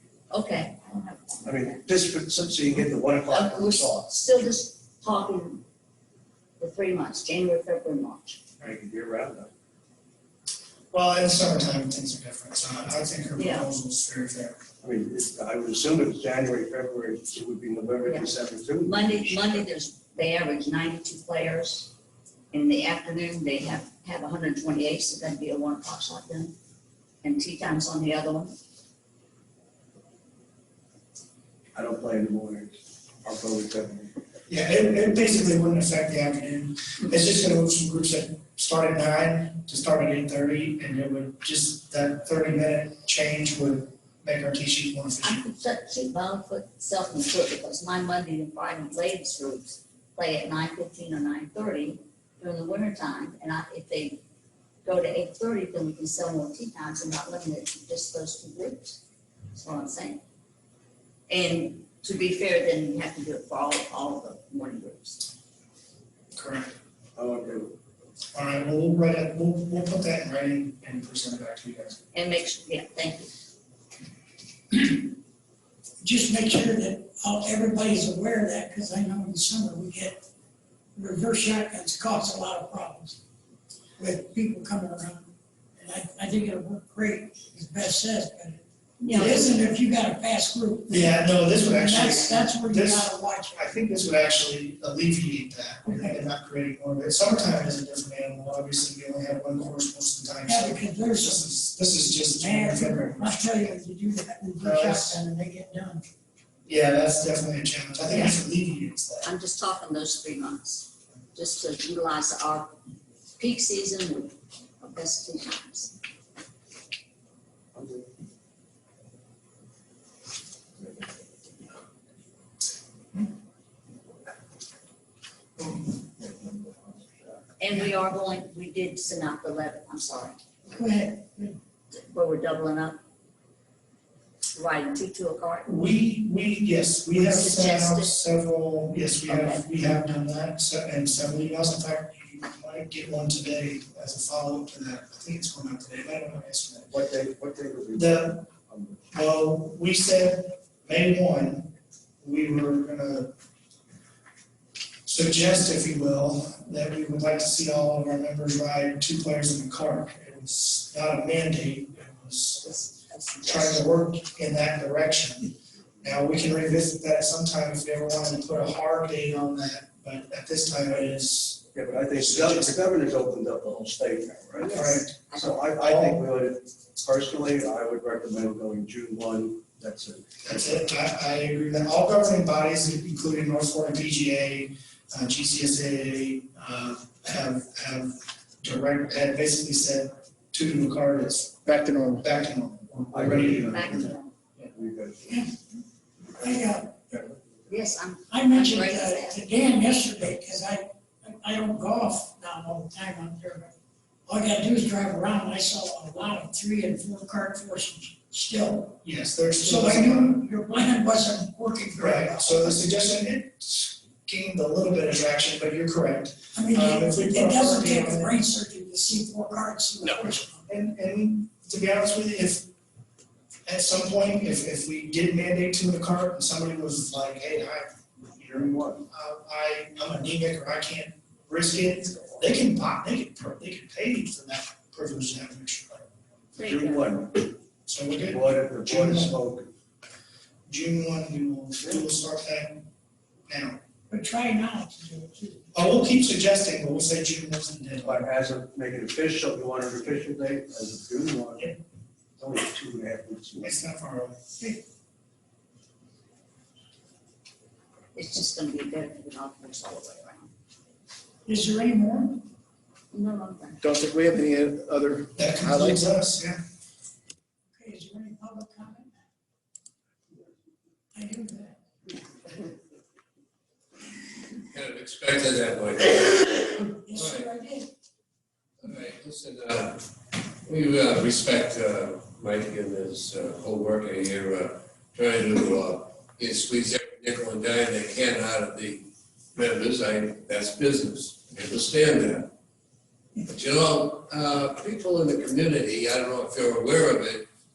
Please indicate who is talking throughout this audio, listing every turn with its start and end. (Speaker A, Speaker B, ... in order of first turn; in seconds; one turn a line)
Speaker A: 0.3-1.8
Speaker B: 1.4-4.1
Speaker A: 3.3-5.6
Speaker A: 6.6-8.4
Speaker B: 8.6-9.5
Speaker C: 10.9-14.6
Speaker A: 13.4-13.7
Speaker B: 14.8-19.6
Speaker A: 18.8-21.9
Speaker A: 22.5-26.6
Speaker A: 27.2-28.6
Speaker B: 31.8-34.1
Speaker C: 34.5-45.4
Speaker A: 45.2-54.2
Speaker A: 54.8-59.0
Speaker A: 59.5-60.2
Speaker A: 61.3-65.3
Speaker C: 66.3-66.7
Speaker B: 67.2-67.7
Speaker C: 68.3-72.0
Speaker A: 72.1-73.3
Speaker D: 74.7-75.0
Speaker D: 76.0-80.2
Speaker D: 81.0-83.2
Speaker D: 84.0-93.7
Speaker A: 89.0-89.4
Speaker C: 90.9-103.7
Speaker D: 95.8-96.2
Speaker D: 100.5-101.5
Speaker D: 102.1-106.0
Speaker C: 104.6-105.2
Speaker C: 106.7-109.3
Speaker A: 108.1-108.4
Speaker A: 109.2-112.8
Speaker A: 113.4-116.0
Speaker B: 117.7-118.1
Speaker B: 126.2-127.2
Speaker A: 127.6-130.4
Speaker D: 130.7-131.6
Speaker A: 131.9-133.0
Speaker A: 134.6-135.7
Speaker C: 135.7-146.9
Speaker A: 137.2-138.2
Speaker A: 139.3-139.6
Speaker B: 146.9-149.1
Speaker C: 147.9-148.5
Speaker C: 149.1-153.3
Speaker C: 155.1-162.7
Speaker A: 162.6-163.8
Speaker C: 163.4-172.8
Speaker B: 171.7-174.8
Speaker A: 174.6-175.7
Speaker C: 174.7-175.2
Speaker B: 175.3-180.3
Speaker C: 175.8-176.2
Speaker C: 180.4-194.7
Speaker E: 191.7-192.1
Speaker B: 193.1-194.1
Speaker A: 193.7-194.3
Speaker B: 194.7-195.4
Speaker D: 195.3-195.8
Speaker D: 196.4-197.0
Speaker B: 197.1-197.4
Speaker A: 197.7-199.4
Speaker D: 198.3-203.7
Speaker D: 204.3-209.0
Speaker C: 209.0-210.4
Speaker D: 209.6-212.8
Speaker C: 212.0-218.3
Speaker D: 216.6-220.7
Speaker C: 220.7-222.7
Speaker C: 223.7-236.1
Speaker B: 228.5-229.0
Speaker A: 236.6-237.1
Speaker B: 236.6-237.5
Speaker C: 237.9-239.4
Speaker B: 238.2-239.7
Speaker C: 240.7-242.9
Speaker C: 243.5-243.8
Speaker D: 244.1-245.7
Speaker C: 245.7-248.3
Speaker B: 248.0-251.8
Speaker B: 252.4-253.7
Speaker C: 253.6-254.4
Speaker D: 254.6-254.9
Speaker A: 258.1-260.5
Speaker D: 261.5-262.5
Speaker A: 263.1-263.8
Speaker E: 263.8-266.0
Speaker C: 265.4-266.6
Speaker D: 267.8-269.1
Speaker D: 271.1-272.5
Speaker F: 274.7-277.5
Speaker D: 277.0-277.9
Speaker F: 278.8-280.0
Speaker F: 280.6-292.5
Speaker F: 293.4-297.5